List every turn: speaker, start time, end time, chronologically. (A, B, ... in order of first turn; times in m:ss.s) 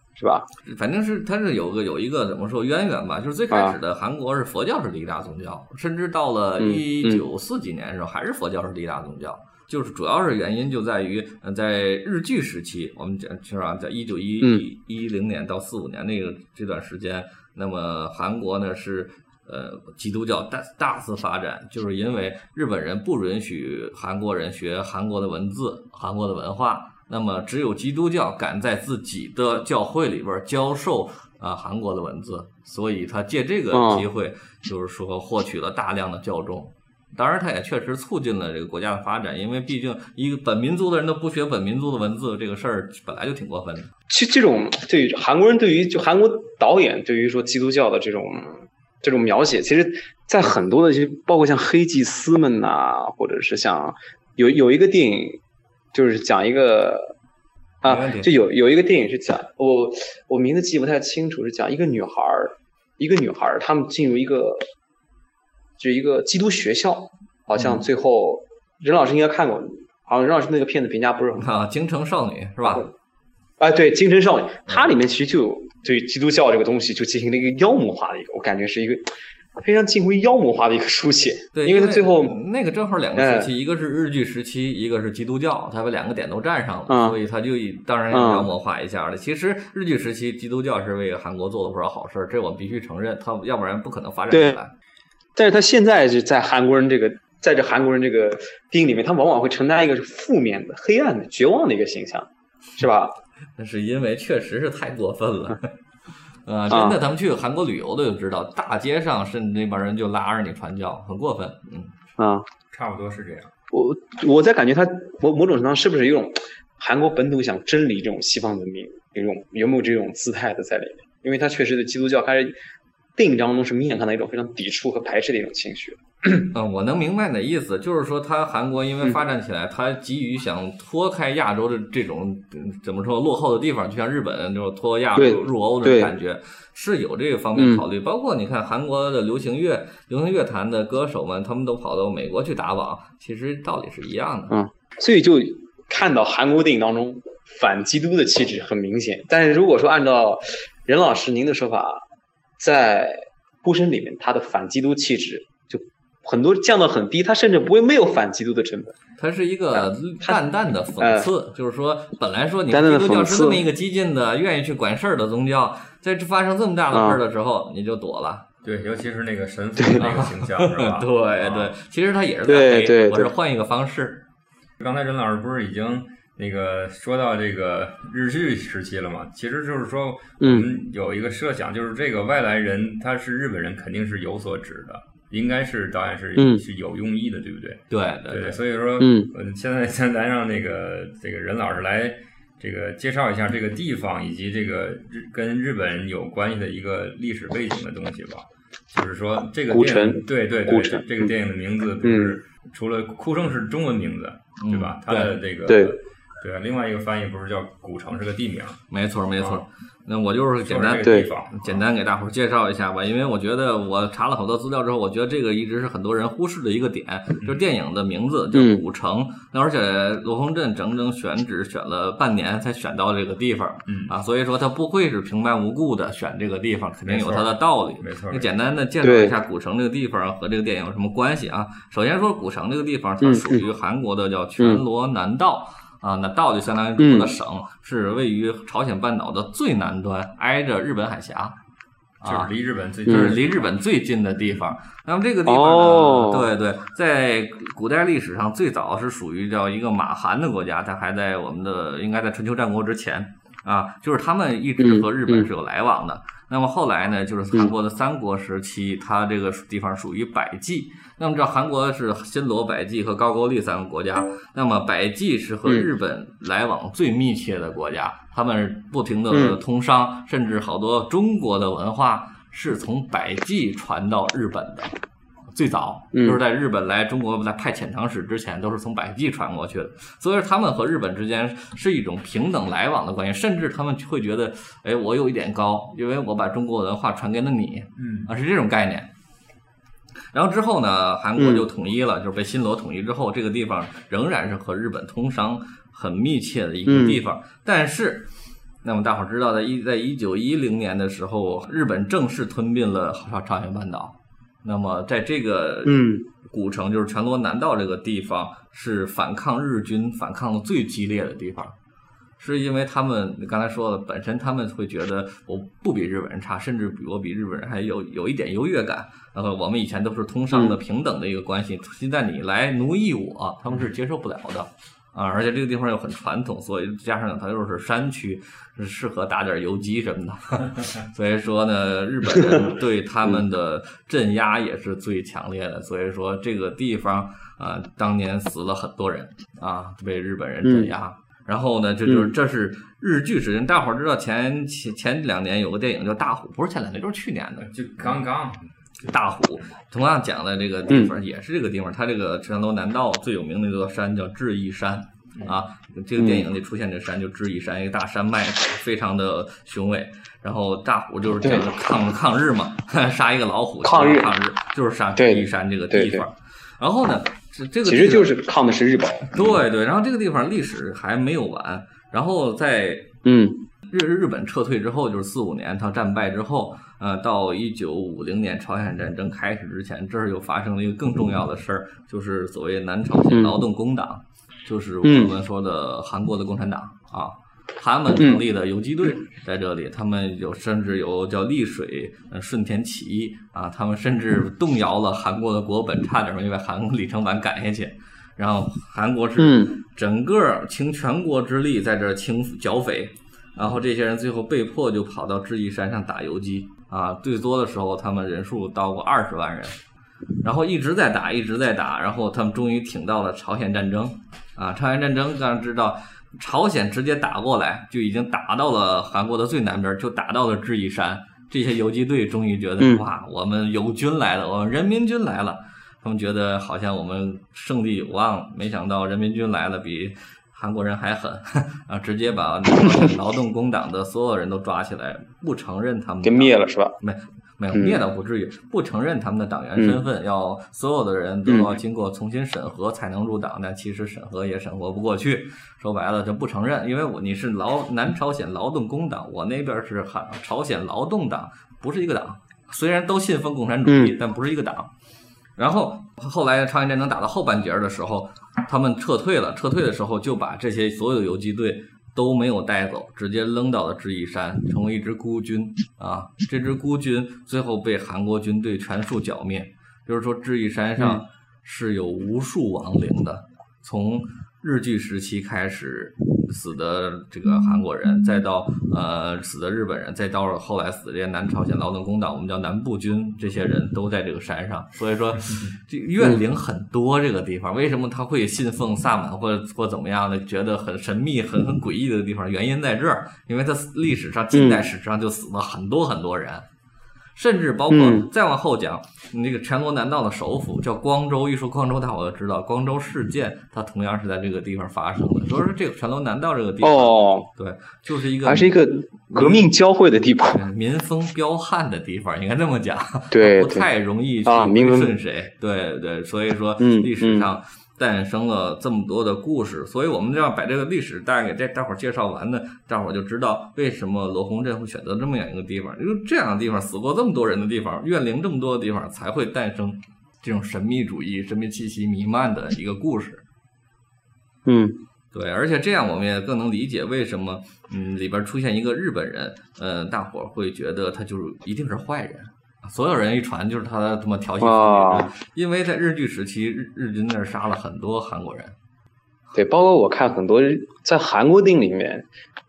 0:00.2-0:00.5 A
0:00.6-0:43.9 B
0:03.5-0:03.8 A
0:06.6-0:07.2 A
0:33.7-0:34.0 A
0:44.1-0:55.4 A
0:55.9-0:57.1 A
0:57.8-0:58.3 B
0:57.8-1:04.6 A
1:05.8-1:11.5 A
1:07.6-1:07.8 B
1:11.4-1:12.9 B
1:13.6-1:22.4 A
1:21.5-1:34.7 B
1:23.1-1:23.5 A
1:26.9-1:27.2 A
1:28.1-1:28.5 A
1:34.3-1:34.6 A
1:35.4-1:43.2 A
1:43.6-1:45.7 B
1:46.4-1:51.9 B
1:46.7-1:47.0 A
1:52.2-1:52.4 A
1:52.7-1:53.5 C
1:53.7-2:02.6 A
2:03.2-2:06.5 A
2:06.5-2:24.6 B
2:15.2-2:16.1 A
2:17.6-2:17.8 A
2:24.5-2:32.0 A
2:32.6-2:38.9 A
2:39.2-2:48.4 B
2:39.7-2:40.4 A
2:41.0-2:41.3 A
2:42.7-2:43.6 A
2:46.9-2:47.2 A
2:48.6-2:51.8 C
2:49.8-2:50.0 A
2:50.0-2:54.2 B
2:52.5-2:53.3 A
2:54.8-3:28.8 C
3:00.4-3:00.7 A
3:06.4-3:06.6 A
3:07.9-3:08.6 B
3:09.0-3:09.3 A
3:19.7-3:21.3 A
3:22.0-3:22.3 A
3:24.6-3:25.3 B
3:25.7-3:26.0 A
3:28.9-4:01.6 B
3:29.4-3:29.6 C
3:30.6-3:31.8 C
3:31.0-3:31.3 A
3:38.5-3:38.8 A
3:43.9-3:44.1 C
3:47.0-3:48.5 C
3:49.0-3:49.4 A
3:53.2-3:53.6 A
3:57.0-3:57.3 A
4:02.2-4:02.5 B
4:02.2-4:03.6 C
4:03.0-4:34.9 B
4:03.1-4:03.4 A
4:05.4-4:06.5 A
4:14.8-4:15.5 A
4:29.3-4:29.6 A
4:35.5-4:49.1 B
4:36.1-4:36.4 A
4:48.0-4:48.3 C
4:50.3-4:58.3 B
4:51.4-4:51.7 A
4:56.8-4:57.2 A
4:58.8-5:11.7 B
5:05.8-5:06.2 A
5:12.4-5:47.7 B
5:40.6-5:40.9 A
5:42.0-5:42.3 A
5:47.6-5:48.7 C
5:49.0-6:08.3 B
5:50.9-5:51.1 A
5:56.2-5:56.5 A
6:01.4-6:01.7 A
6:03.8-6:04.3 A
6:05.2-6:06.3 A
6:07.8-6:09.6 A
6:09.3-6:13.1 B
6:13.2-6:13.6 A
6:13.9-6:49.8 B
6:23.3-6:23.6 A
6:25.0-6:25.4 A
6:28.2-6:28.4 A
6:39.4-6:39.8 A
6:50.4-7:34.9 B
7:02.8-7:03.0 A
7:16.2-7:16.9 A
7:17.7-7:18.0 A
7:19.8-7:20.0 A
7:21.4-7:21.7 A
7:33.8-7:34.1 A
7:35.6-8:16.6 B
7:51.0-7:51.2 A
8:14.5-8:14.9 A
8:17.3-8:28.8 B
8:17.9-8:18.3 A
8:26.8-8:27.5 A
8:28.4-8:30.6 A
8:29.3-8:29.7 B
8:30.5-8:53.4 B
8:33.3-8:33.9 A
8:34.4-8:35.2 A
8:36.8-8:37.5 A
8:54.6-8:55.0 A
8:55.3-9:08.7 B
9:04.6-9:05.3 A
9:09.5-9:12.3 A